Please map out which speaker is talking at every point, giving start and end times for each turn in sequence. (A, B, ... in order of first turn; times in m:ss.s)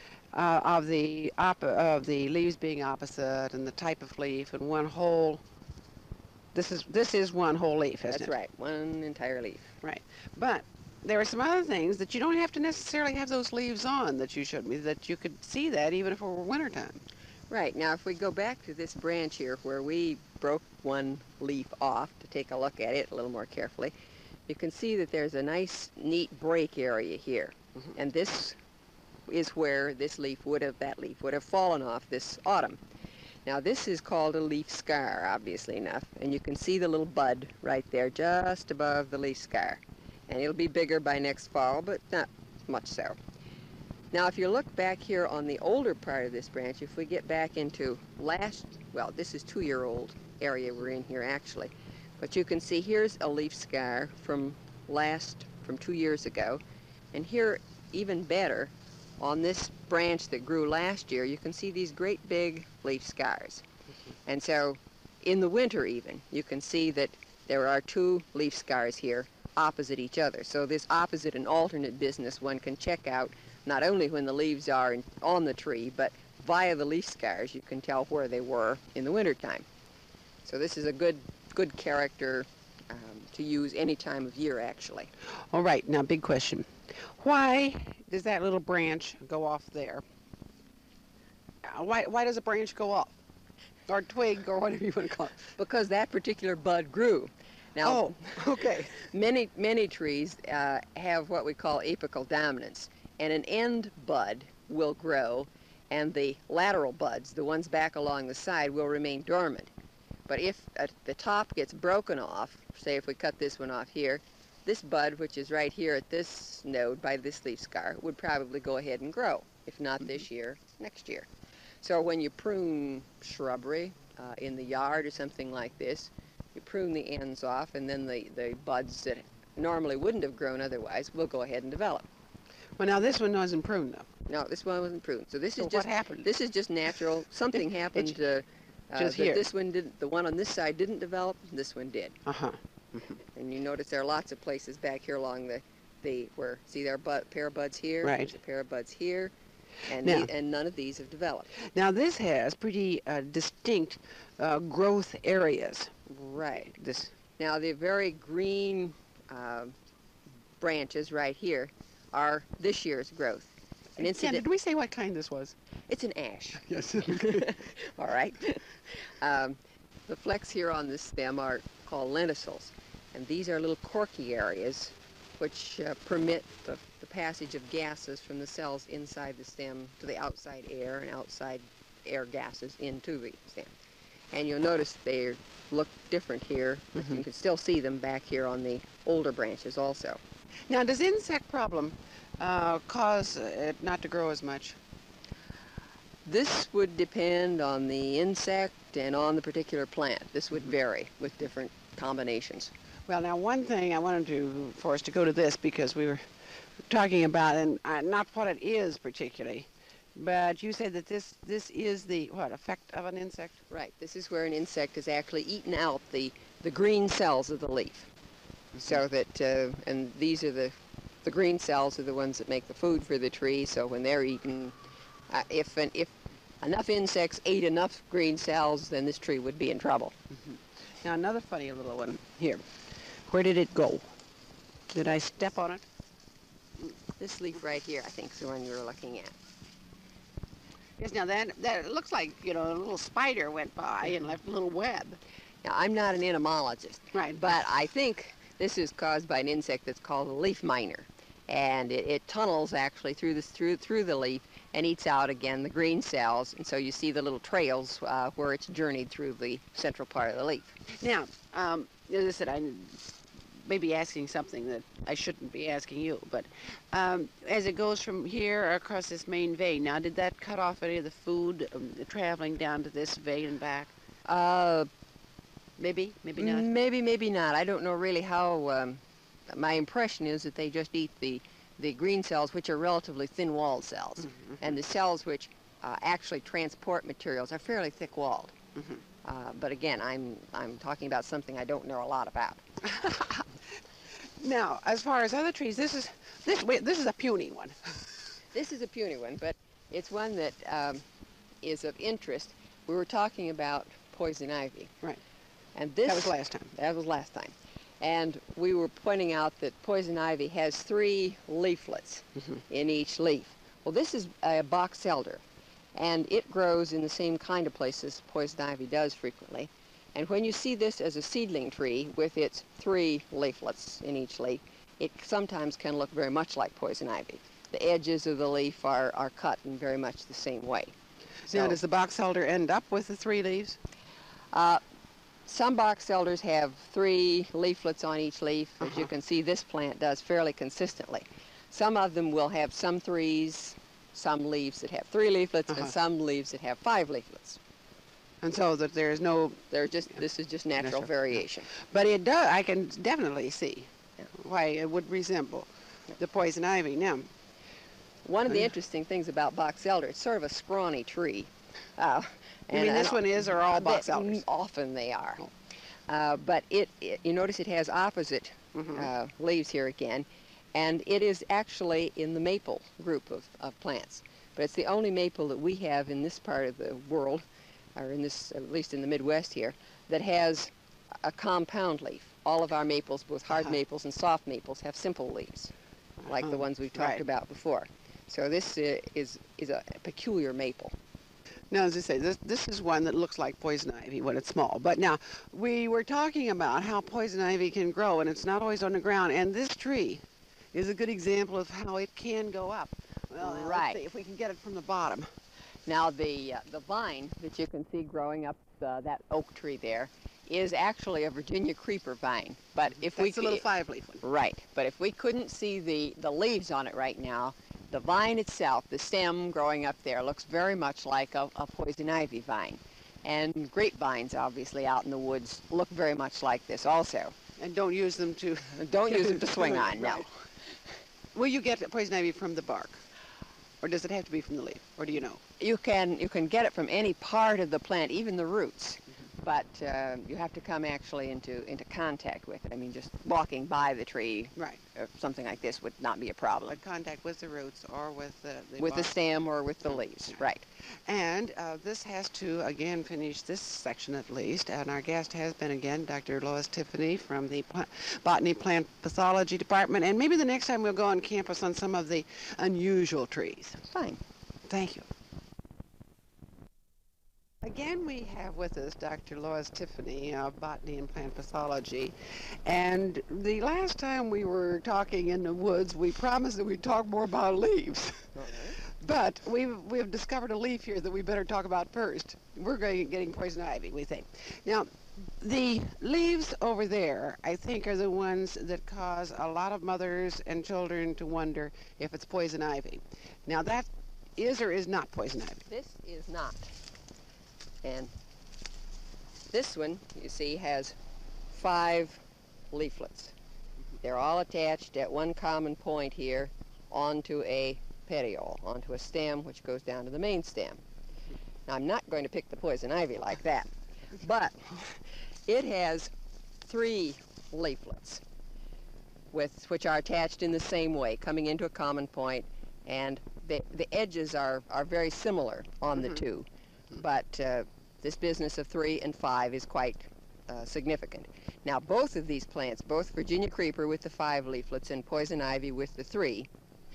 0:00.3-0:05.4 A
0:06.5-0:08.3 A
0:08.1-0:09.7 B
0:09.8-0:17.0 A
0:17.5-0:23.9 B
0:24.5-0:28.6 B
0:29.3-0:32.8 B
0:33.4-0:43.2 B
0:44.1-0:56.6 B
0:57.1-1:03.6 B
1:04.2-1:19.6 B
1:20.4-1:25.1 B
1:25.5-1:30.0 A
1:31.6-1:33.1 A
1:33.9-1:35.5 A
1:35.6-1:38.4 B
1:37.8-1:38.9 A
1:38.9-1:49.7 B
1:50.3-2:01.3 B
2:01.8-2:12.0 B
2:12.8-2:14.1 A
2:14.3-2:22.2 B
2:15.6-2:16.3 A
2:19.0-2:19.5 A
2:22.2-2:23.2 A
2:23.3-2:29.3 B
2:28.0-2:28.3 A
2:29.8-2:31.5 B
2:30.0-2:30.3 A
2:31.6-2:35.9 A
2:36.1-2:36.7 B
2:36.6-2:37.1 A
2:37.4-2:39.8 B
2:40.6-2:44.4 B
2:44.0-2:45.5 A
2:45.9-3:03.7 B
2:46.7-2:47.5 A
3:04.3-3:10.2 B
3:10.7-3:14.8 A
3:16.2-3:22.7 B
3:23.1-3:26.2 A
3:26.9-3:33.6 A
3:33.7-3:38.1 B
3:38.8-3:44.8 B
3:45.3-3:50.1 B
3:51.0-3:52.6 A
3:53.3-3:54.1 A
3:54.9-3:55.8 A
3:57.2-3:59.4 B
4:01.0-4:05.2 A
4:05.6-4:20.8 B
4:07.1-4:07.5 A
4:21.0-4:23.0 A
4:23.6-4:33.9 A
4:34.2-4:34.9 B
4:35.8-4:36.7 A
4:36.4-4:48.5 B
4:49.2-4:52.6 B
4:52.9-4:53.4 A
4:54.1-4:58.0 A
4:58.5-5:01.0 B
5:01.6-5:04.9 B
5:05.7-5:15.4 B
5:06.0-5:06.7 A
5:15.9-5:30.9 B
5:31.5-5:31.8 B
5:31.5-5:33.8 A
5:34.5-5:34.8 B
5:35.4-5:47.6 B
5:48.4-5:49.7 A
5:49.7-5:51.7 B
5:50.8-5:57.3 A
5:58.2-6:05.4 B
6:02.7-6:04.4 A
6:06.1-6:20.7 B
6:08.7-6:09.1 A
6:21.2-6:25.7 B
6:26.2-6:27.2 A
6:26.2-6:30.9 B
6:31.7-6:45.3 A
6:43.4-6:44.0 B
6:45.9-6:53.6 B
6:53.0-6:54.2 A
6:54.2-7:07.4 B
7:07.6-7:10.3 A
7:08.8-7:10.3 B
7:11.3-7:13.0 A
7:13.8-7:15.4 A
7:15.6-7:26.8 B
7:26.7-7:29.1 A
7:28.8-7:30.7 B
7:31.1-7:43.8 A
7:43.9-7:44.2 B
7:44.7-7:45.0 A
7:47.6-8:15.6 A
7:58.4-7:58.8 B
8:15.7-8:16.7 B
8:17.8-8:18.1 B
8:19.5-8:21.0 B
8:21.5-8:23.3 B
8:24.0-8:30.8 B
8:31.7-8:36.1 B
8:36.6-8:38.2 B
8:39.3-8:56.5 B